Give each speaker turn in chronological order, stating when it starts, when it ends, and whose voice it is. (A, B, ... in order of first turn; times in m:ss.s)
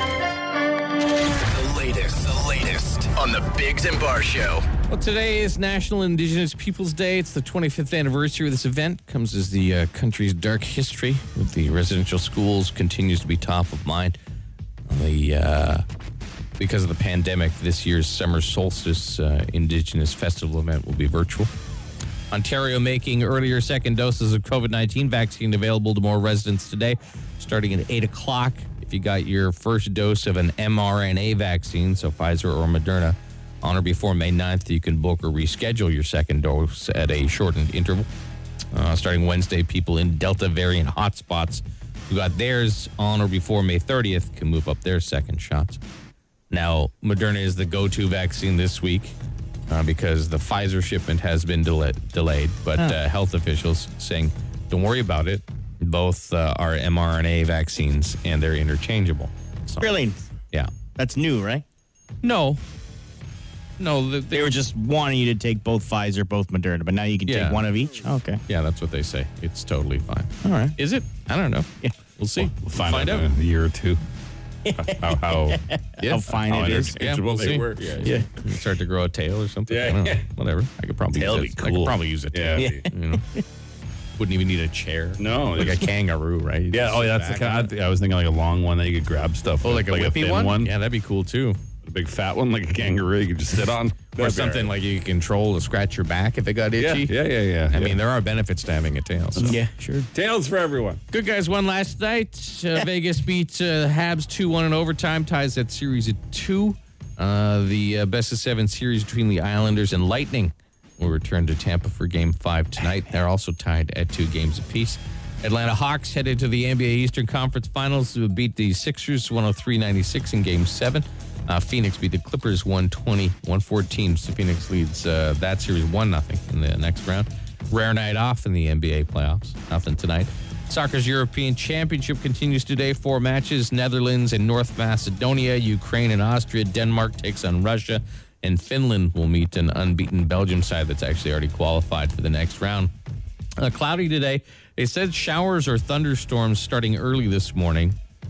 0:01.5-0:04.7 A
0:04.9-0:14.2 B
0:14.9-0:15.9 B
0:16.6-0:21.5 B
0:22.3-0:38.1 B
0:38.7-0:45.8 B
0:46.5-0:49.2 B
0:49.7-0:59.9 B
0:59.8-1:00.2 C
1:01.0-1:01.6 C
1:02.2-1:02.6 B
1:03.8-1:04.6 B
1:04.3-1:08.4 C
1:07.3-1:07.7 B
1:08.5-1:13.3 B
1:10.4-1:10.8 C
1:12.4-1:14.0 D
1:14.7-1:17.0 C
1:14.8-1:15.6 D
1:16.0-1:23.3 B
1:16.5-1:18.1 D
1:19.7-1:20.3 D
1:21.2-1:22.9 D
1:22.6-1:22.9 C
1:24.2-1:27.7 B
1:25.2-1:25.9 D
1:26.7-1:30.7 D
1:29.6-1:31.6 B
1:31.9-1:34.7 D
1:34.2-1:37.2 B
1:36.8-1:38.0 D
1:37.7-1:39.6 B
1:39.4-1:40.1 C
1:40.1-1:41.0 D
1:41.1-2:22.9 B
2:23.6-2:28.0 B